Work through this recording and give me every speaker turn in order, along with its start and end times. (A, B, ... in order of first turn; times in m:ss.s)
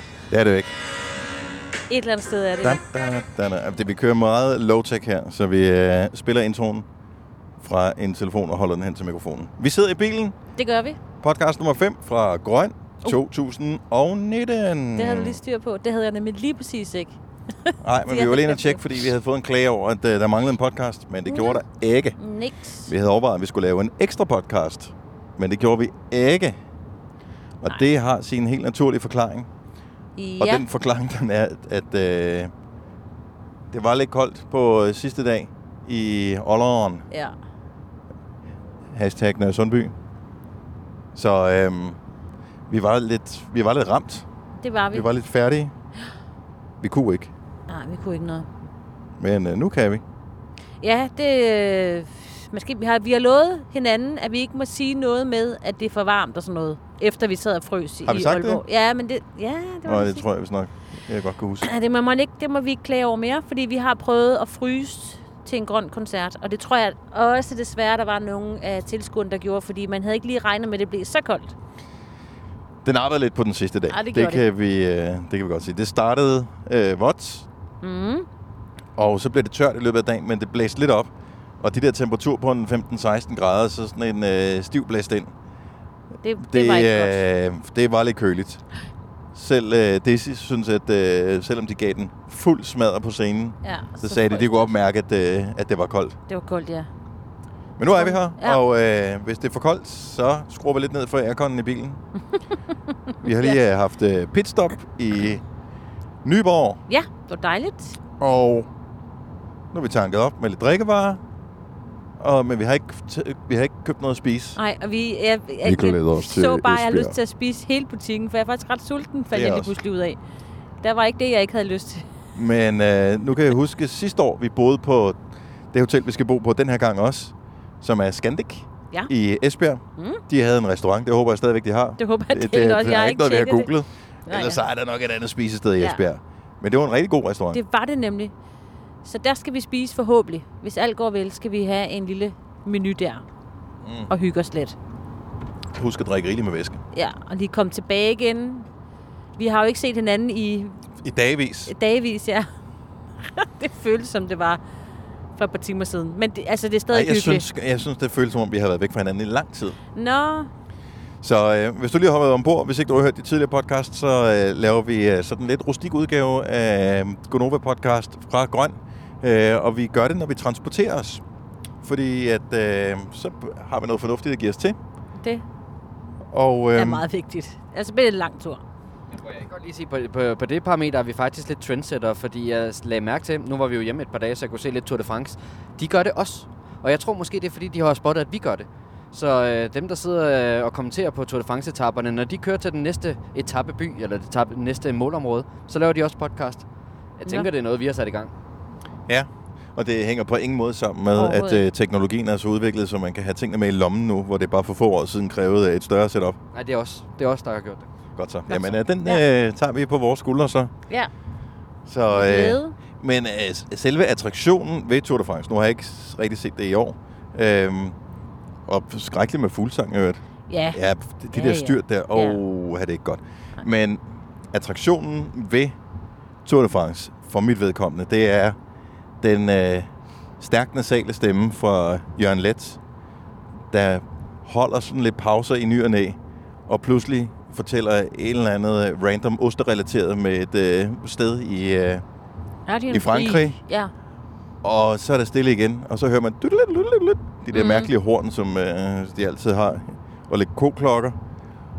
0:00.3-0:00.7 A
0:01.9-0:02.8 B
0:02.6-0:06.8 A
0:07.6-0:10.4 A
0:10.6-0:11.0 B
0:11.2-0:15.4 A
0:15.0-0:18.9 B
0:17.8-0:22.2 A
0:21.2-0:21.6 B
0:22.2-0:22.9 B
0:22.8-0:26.6 A
0:27.6-0:29.5 A
0:30.2-0:30.6 B
0:30.4-0:32.5 A
0:33.7-0:37.0 A
0:38.9-0:39.9 A
0:41.1-0:42.0 A
0:42.7-0:44.2 A
0:44.6-0:45.1 B
0:44.9-0:45.7 A
0:46.8-0:47.3 A
0:47.7-0:48.5 B
0:49.2-0:50.0 A
0:50.8-1:00.2 B
0:58.0-0:58.6 A
0:59.8-1:01.7 A
1:01.6-1:11.5 B
1:12.8-1:17.4 A
1:13.9-1:14.4 B
1:17.8-1:18.2 B
1:19.0-1:21.1 A
1:21.6-1:25.3 A
1:26.2-1:27.2 B
1:26.4-1:28.6 A
1:29.3-1:36.2 A
1:33.6-1:34.7 B
1:36.3-1:36.9 B
1:37.8-1:42.0 A
1:37.9-1:38.6 B
1:43.2-1:45.4 A
1:43.3-1:43.6 B
1:46.2-1:46.8 A
1:46.9-1:48.0 B
1:48.2-1:48.7 A
1:49.7-1:51.2 A
1:52.2-1:54.6 A
1:54.6-2:00.2 B
1:55.6-1:57.2 A
1:59.3-1:59.7 A
2:00.8-2:02.0 B
2:02.3-2:05.2 A
2:05.7-2:17.6 A
2:10.0-2:10.2 B
2:12.0-2:13.7 B
2:14.3-2:14.6 B
2:17.5-2:18.3 B
2:19.0-2:23.2 B
2:23.8-2:24.1 A
2:24.1-2:24.8 B
2:25.7-2:26.8 A
2:26.9-2:28.7 B
2:29.4-2:30.7 B
2:31.0-2:31.7 A
2:31.7-2:32.5 B
2:33.2-2:34.6 B
2:35.4-2:37.4 B
2:36.9-2:39.8 A
2:40.0-2:40.5 B
2:41.2-2:51.2 A
2:51.8-2:54.8 A
2:56.3-2:57.0 A
2:56.8-2:58.6 B
2:59.2-3:16.6 C
3:17.2-3:18.3 C
3:19.1-3:26.4 A
3:21.1-3:21.6 B
3:26.5-3:27.9 C
3:28.2-3:30.7 A
3:28.5-3:29.2 B
3:31.8-3:38.0 A
3:32.1-3:32.7 B
3:38.7-3:40.2 A
3:40.5-3:40.8 B
3:40.7-3:45.7 A
3:41.3-3:42.4 B
3:46.4-3:48.6 A
3:49.2-3:52.8 A
3:53.7-4:02.0 A
4:02.7-4:03.9 B
4:02.9-4:03.6 A
4:04.6-4:11.2 A
4:07.5-4:07.9 B